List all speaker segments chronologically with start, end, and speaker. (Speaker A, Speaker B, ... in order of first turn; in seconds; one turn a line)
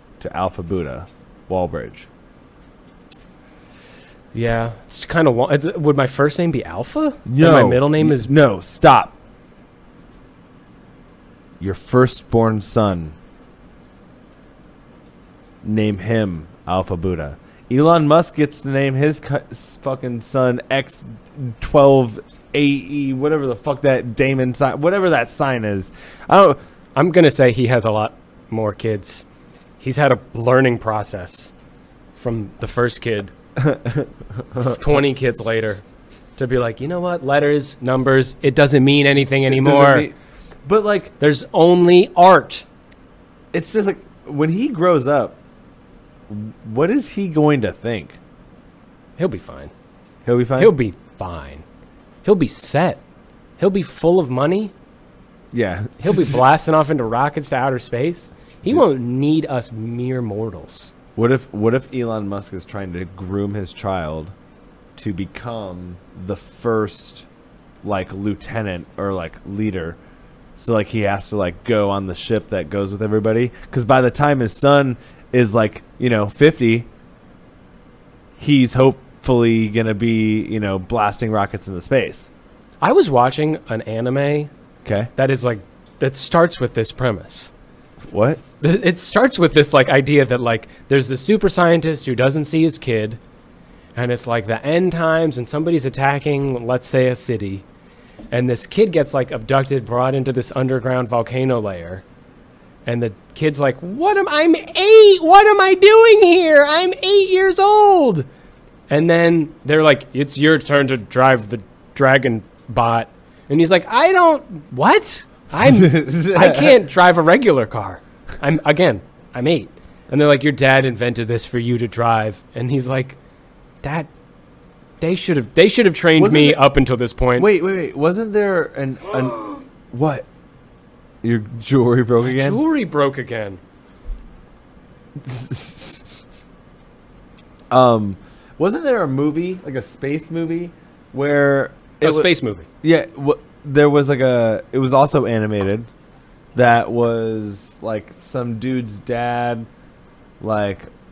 Speaker A: 0.2-2.1
Speaker B: 4.3-8.3
Speaker A: 7.2-9.1
Speaker A: 11.6-13.2
Speaker A: 15.6-26.6
Speaker B: 26.9-29.2
Speaker B: 29.8-31.5
Speaker B: 32.1-33.3
Speaker A: 33.6-34.8
Speaker B: 34.6-35.8
Speaker B: 36.4-40.1
Speaker A: 39.5-41.1
Speaker B: 41.2-42.6
Speaker A: 43.5-45.4
Speaker A: 46.3-48.2
Speaker B: 49.2-49.7
Speaker A: 50.2-50.8
Speaker B: 50.6-51.6
Speaker B: 52.2-53.0
Speaker B: 53.6-54.7
Speaker A: 55.5-56.4
Speaker B: 56.0-60.9
Speaker A: 61.1-64.3
Speaker A: 65.0-67.2
Speaker A: 67.8-70.0
Speaker A: 70.5-76.9
Speaker A: 78.4-82.3
Speaker B: 82.8-84.5
Speaker A: 84.8-85.1
Speaker B: 85.2-87.5
Speaker A: 88.0-88.4
Speaker B: 88.6-93.2
Speaker B: 93.9-97.6
Speaker B: 98.3-102.0
Speaker B: 102.8-108.3
Speaker B: 108.9-123.2
Speaker A: 115.5-116.8
Speaker B: 123.8-124.1
Speaker B: 125.0-127.5
Speaker A: 126.2-126.6
Speaker A: 127.4-130.2
Speaker A: 131.2-132.6
Speaker B: 132.2-133.6
Speaker A: 135.2-136.2
Speaker A: 137.7-142.3
Speaker B: 142.0-142.7
Speaker A: 142.8-145.9
Speaker A: 146.5-149.7
Speaker A: 150.4-150.9